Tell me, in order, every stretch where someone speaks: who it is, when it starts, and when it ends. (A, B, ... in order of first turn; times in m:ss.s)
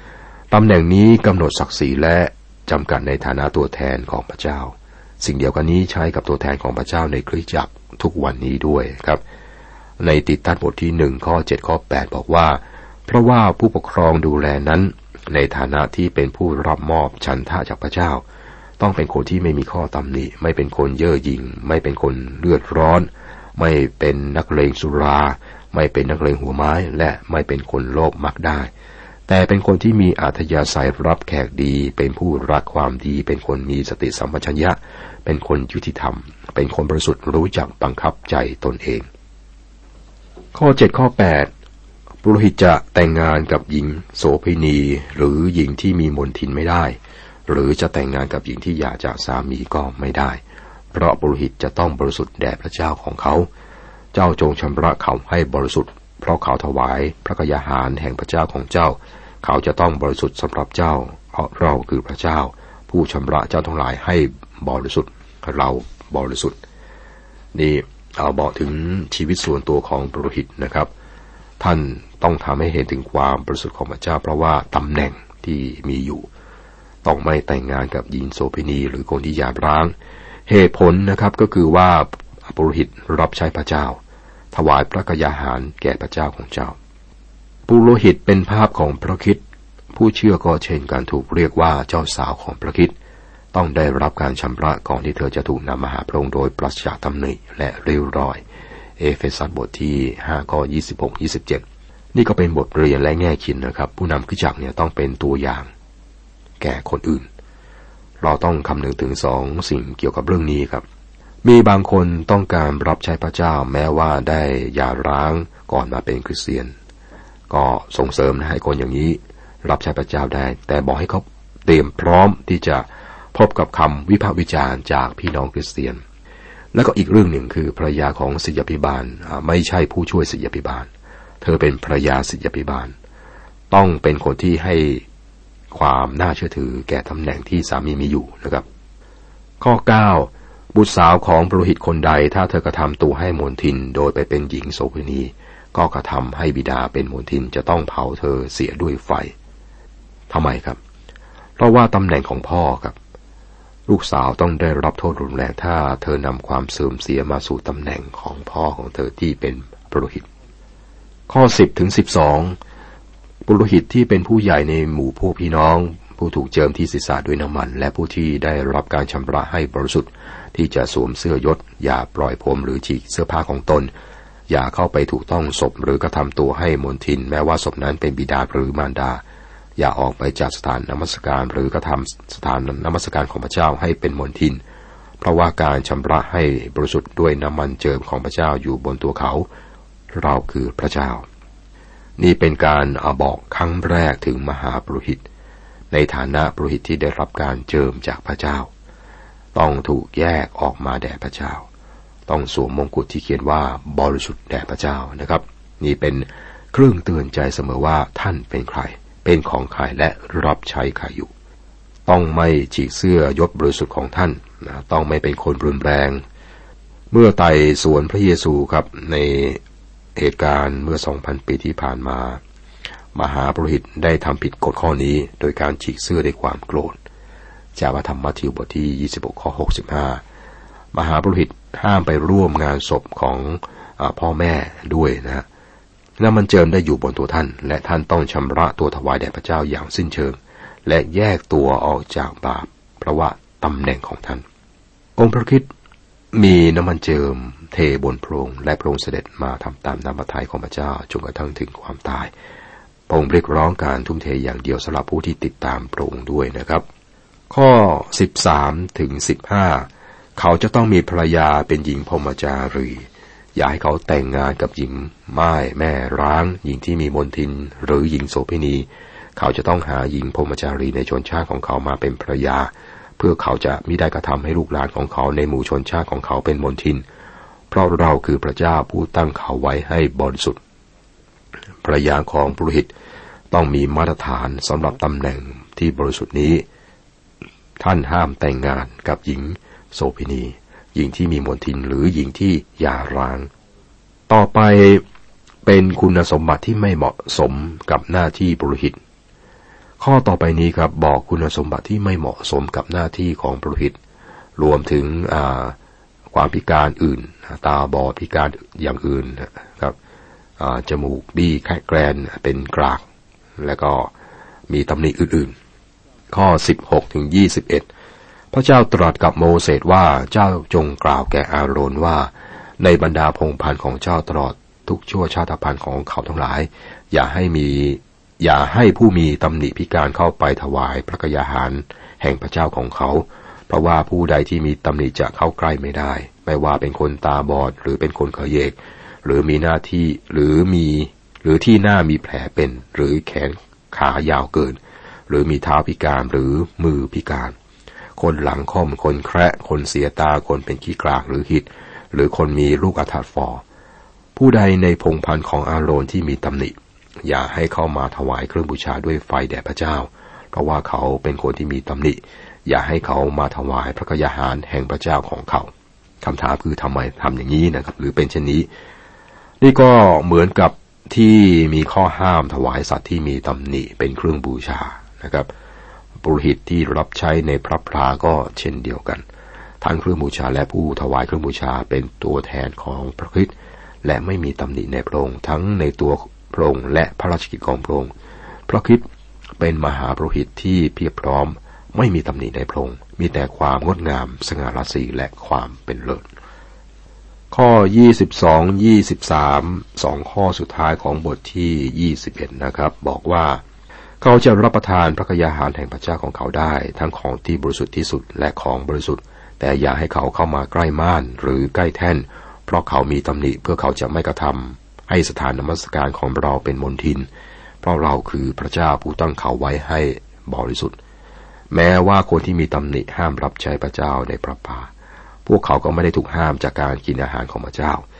0:00.5-0:09.2 A
0:10.0-0:18.2 A
0:18.8-0:28.7 A
0:29.3-0:39.1 A
0:40.5-0:41.5 A
0:42.2-0:50.4 A
0:50.9-0:53.5 A
0:54.1-1:06.6 A
1:07.5-1:10.9 A
1:11.6-1:16.3 A
1:17.0-1:19.9 A
1:20.5-1:24.0 A
1:24.5-1:26.8 A
1:27.7-1:29.4 A
1:29.9-1:32.9 A
1:33.5-1:38.4 A
1:39.0-1:45.7 A
1:46.6-1:47.2 A
1:48.2-1:50.8 A
1:51.4-1:56.7 A
1:57.5-2:06.0 A
2:06.7-2:10.9 A
2:11.4-2:12.9 A
2:13.7-2:15.0 A
2:15.7-2:18.6 A
2:19.6-2:29.3 A
2:30.3-2:30.8 A
2:31.6-2:33.0 A
2:33.9-2:40.3 A
2:41.3-2:42.6 A
2:43.4-2:53.9 A
2:54.5-2:59.2 A
2:59.8-3:04.6 A
3:05.2-3:09.5 A
3:10.1-3:11.2 A
3:12.2-3:15.2 A
3:15.9-3:18.7 A
3:19.5-3:21.6 A
3:22.3-3:31.3 A
3:32.1-3:36.2 A
3:37.1-3:39.6 A
3:40.2-3:42.4 A
3:43.1-3:47.0 A
3:47.8-3:50.2 A
3:50.9-3:55.4 A
3:56.2-4:04.4 A
4:05.2-4:05.7 A
4:06.3-4:12.3 A
4:13.1-4:16.8 A
4:17.5-4:37.0 A
4:37.7-4:40.6 A
4:41.8-4:42.9 A
4:43.5-4:46.6 A
4:47.8-4:53.5 A
4:54.3-4:55.0 A
4:55.6-4:59.0 A
5:00.0-5:04.0 A
5:04.6-5:05.8 A
5:06.3-5:10.0 A
5:10.6-5:13.0 A
5:13.6-5:14.1 A
5:14.7-5:15.5 A
5:16.3-5:17.9 A
5:18.5-5:47.5 A
5:48.2-5:53.6 A
5:54.4-6:05.7 A
6:06.2-6:08.7 A
6:09.6-6:15.5 A
6:16.2-6:19.2 A
6:19.8-6:23.5 A
6:24.0-6:28.1 A
6:28.7-6:29.0 A
6:29.6-6:36.2 A
6:37.5-6:43.6 A
6:44.2-6:57.3 A
6:57.8-7:01.0 A
7:01.7-7:04.9 A
7:05.4-7:08.0 A